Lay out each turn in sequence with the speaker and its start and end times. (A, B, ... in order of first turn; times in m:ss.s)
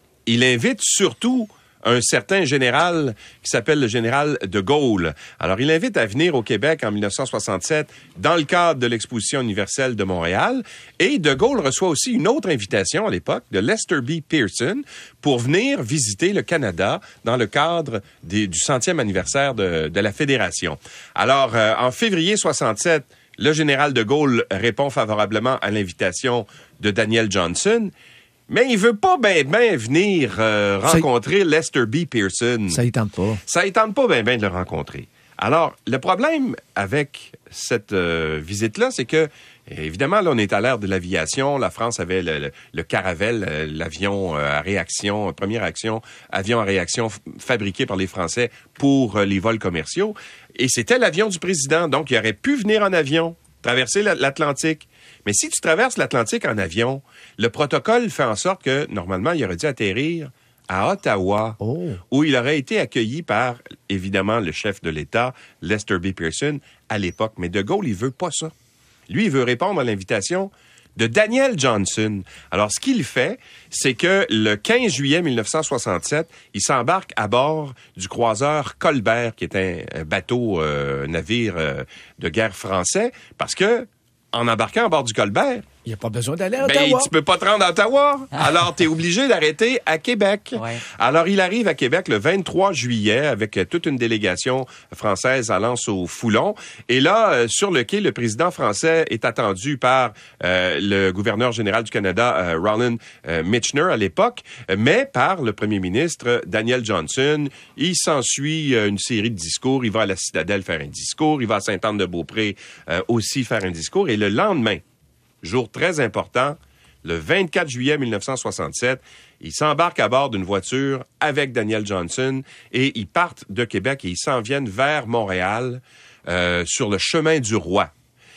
0:00.3-0:27.9 A
0:28.5-0:32.8 A
0:32.7-0:33.4 B
0:33.5-1:01.6 A
1:01.6-1:02.0 B
1:02.1-1:08.5 A
1:09.1-1:25.6 A
1:25.8-1:27.1 B
1:26.6-1:54.8 A
1:55.4-2:07.9 A